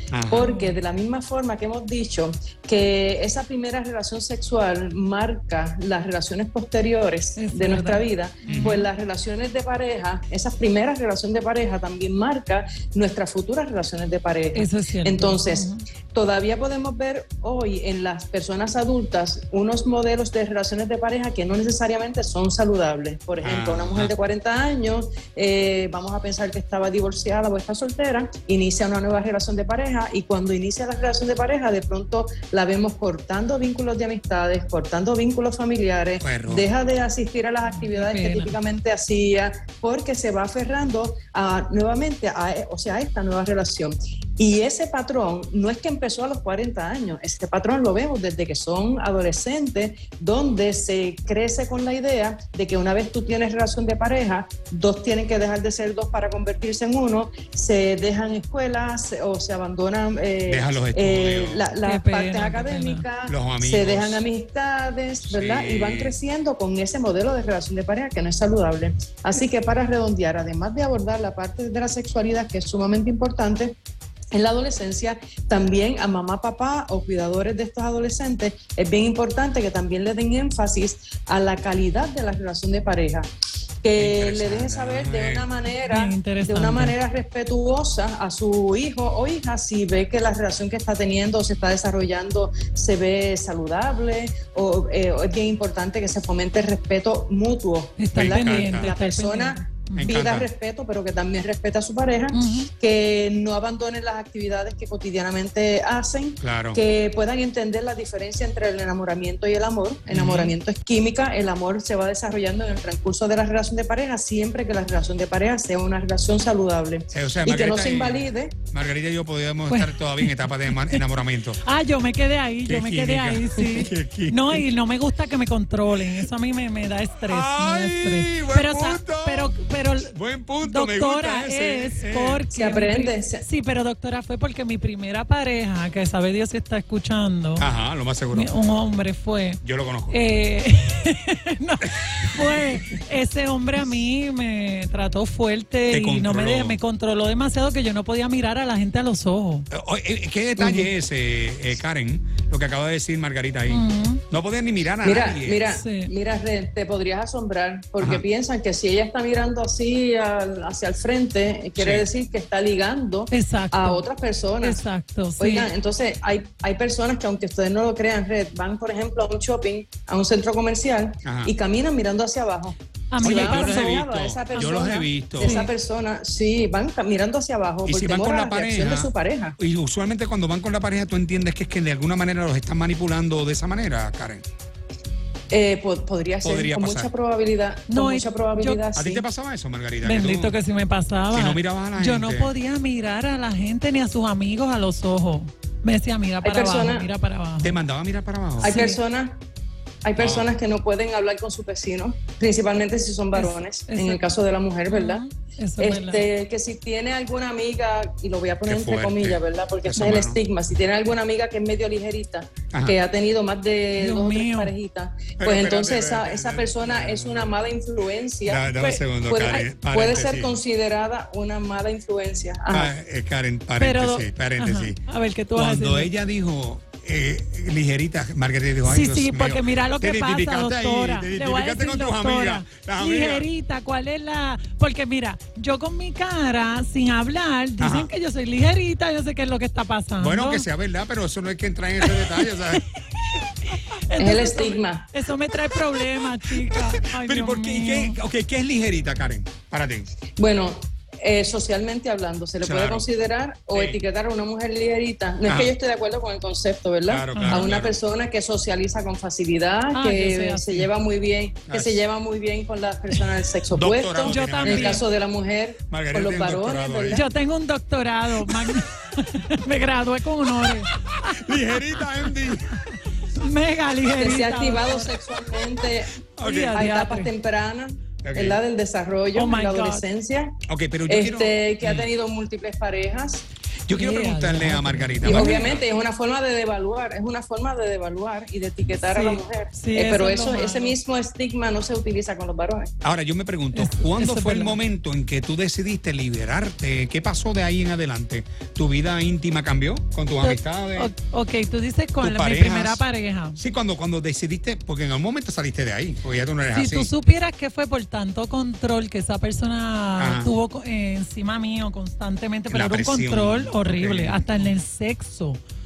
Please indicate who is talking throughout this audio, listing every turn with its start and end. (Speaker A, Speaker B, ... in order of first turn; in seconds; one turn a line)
Speaker A: 0.1-0.5
Speaker B: 0.3-73.7
Speaker C: 0.4-0.8
Speaker C: 7.4-8.8
Speaker A: 8.5-8.8
Speaker C: 14.6-15.8
Speaker A: 23.4-24.1
Speaker A: 36.2-36.7
Speaker C: 37.7-38.6
Speaker A: 60.5-61.7
Speaker C: 61.8-63.0
Speaker A: 63.3-64.2
Speaker A: 65.3-66.1
Speaker B: 74.3-83.3
Speaker B: 83.8-118.6
Speaker A: 84.0-85.5
Speaker C: 85.8-87.0
Speaker C: 98.0-100.4
Speaker A: 98.2-98.9
Speaker A: 100.0-100.5
Speaker C: 102.3-102.7
Speaker A: 106.4-106.8
Speaker A: 110.1-110.5
Speaker A: 117.1-121.6
Speaker C: 119.7-121.0
Speaker C: 121.6-137.7
Speaker A: 122.7-124.7
Speaker A: 127.3-129.5
Speaker A: 130.1-132.4
Speaker B: 132.5-133.4
Speaker A: 137.6-138.5
Speaker C: 138.3-149.7
Speaker A: 139.6-140.2
Speaker A: 145.9-146.8
Speaker A: 149.7-155.7
Speaker B: 150.6-150.9
Speaker C: 153.7-154.2
Speaker B: 155.0-164.8
Speaker C: 155.7-156.1
Speaker A: 161.8-162.1
Speaker C: 163.3-164.0
Speaker C: 164.6-165.7
Speaker B: 165.4-179.6
Speaker A: 171.2-171.5
Speaker C: 173.1-175.7
Speaker A: 173.2-175.6
Speaker A: 177.8-184.4
Speaker B: 185.5-189.2
Speaker A: 186.4-187.1
Speaker C: 187.9-188.8
Speaker A: 188.9-190.5
Speaker C: 190.0-197.8
Speaker A: 191.3-192.5
Speaker B: 196.4-197.1
Speaker A: 197.6-198.8
Speaker B: 198.6-199.4
Speaker C: 198.6-199.0
Speaker B: 200.0-205.2
Speaker A: 200.2-200.5
Speaker C: 203.3-204.2
Speaker C: 204.9-206.3
Speaker B: 205.8-222.9
Speaker A: 208.7-210.4
Speaker A: 212.7-213.0
Speaker C: 214.0-214.7
Speaker A: 215.4-217.5
Speaker A: 218.4-220.5
Speaker A: 222.7-225.0
Speaker C: 223.8-226.1
Speaker A: 225.6-233.5
Speaker C: 228.8-240.7
Speaker A: 237.8-238.1
Speaker A: 240.2-242.8
Speaker C: 242.0-248.2
Speaker B: 244.2-245.1
Speaker A: 246.7-250.1
Speaker B: 250.4-267.3
Speaker A: 252.6-253.1
Speaker A: 253.7-254.0
Speaker A: 255.4-255.7
Speaker A: 257.1-258.0
Speaker C: 257.3-257.8
Speaker C: 259.9-260.9
Speaker A: 261.7-262.0
Speaker A: 263.7-265.1
Speaker C: 264.2-265.0
Speaker A: 265.9-267.3
Speaker C: 267.1-271.3
Speaker A: 271.3-272.8
Speaker C: 271.9-272.5
Speaker C: 273.3-275.1
Speaker B: 274.2-276.2
Speaker A: 276.4-276.8
Speaker C: 276.4-277.3
Speaker B: 276.7-280.5
Speaker A: 278.2-278.6
Speaker C: 279.4-280.0
Speaker A: 280.7-282.1
Speaker B: 281.1-283.4
Speaker A: 283.9-285.8
Speaker C: 283.9-285.6
Speaker B: 285.2-292.9
Speaker C: 288.9-291.0
Speaker A: 293.0-301.1
Speaker C: 293.7-294.8
Speaker C: 300.4-303.6
Speaker A: 302.2-303.0
Speaker A: 303.6-307.1
Speaker C: 306.7-315.6
Speaker A: 310.2-310.5
Speaker A: 312.7-314.7